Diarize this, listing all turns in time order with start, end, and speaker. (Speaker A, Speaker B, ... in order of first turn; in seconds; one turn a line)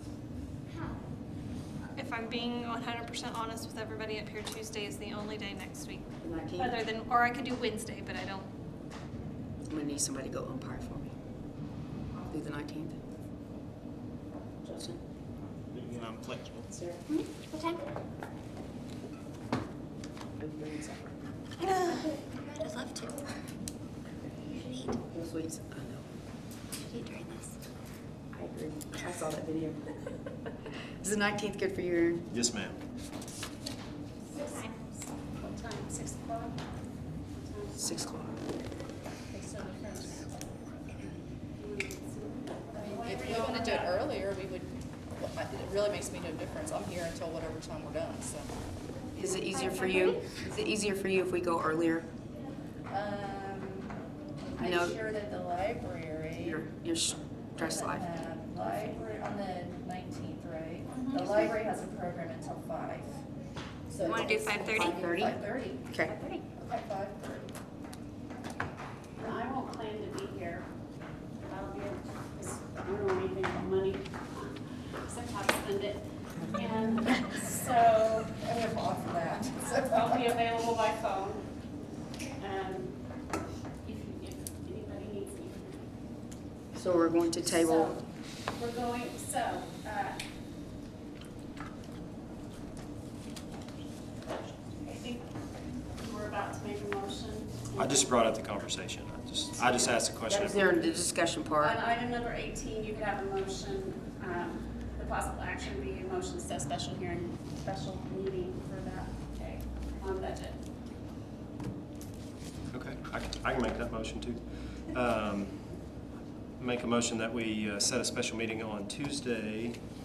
Speaker A: 1.9-8.5
Speaker B: 6.2-6.8
Speaker B: 9.7-11.1
Speaker B: 12.2-13.0
Speaker B: 14.6-15.0
Speaker C: 15.8-16.6
Speaker B: 16.7-17.0
Speaker D: 17.1-17.8
Speaker B: 20.4-21.1
Speaker D: 21.8-23.3
Speaker D: 24.5-25.0
Speaker B: 25.1-26.1
Speaker D: 26.8-27.6
Speaker B: 28.3-30.1
Speaker B: 31.0-32.2
Speaker C: 32.3-32.8
Speaker D: 34.3-35.0
Speaker E: 35.4-36.5
Speaker E: 37.3-37.9
Speaker B: 37.8-38.4
Speaker F: 39.3-40.2
Speaker E: 41.5-43.9
Speaker F: 42.7-48.5
Speaker B: 49.1-52.1
Speaker D: 49.5-50.2
Speaker F: 52.9-54.0
Speaker F: 54.5-56.6
Speaker B: 54.6-55.0
Speaker B: 56.4-58.1
Speaker F: 57.6-63.2
Speaker F: 63.9-66.0
Speaker D: 64.0-65.0
Speaker B: 64.8-65.4
Speaker B: 65.9-66.1
Speaker D: 66.0-66.4
Speaker F: 66.5-67.5
Speaker E: 69.2-70.7
Speaker E: 71.4-78.3
Speaker F: 78.2-80.4
Speaker E: 79.8-81.4
Speaker E: 82.4-83.0
Speaker E: 83.8-85.8
Speaker B: 86.7-87.9
Speaker E: 87.4-88.0
Speaker E: 88.5-90.2
Speaker E: 94.8-95.3
Speaker E: 96.0-98.1
Speaker C: 97.8-100.9
Speaker E: 99.6-99.9
Speaker B: 100.2-101.8
Speaker E: 101.6-110.5
Speaker C: 112.7-115.8
Speaker C: 116.6-119.8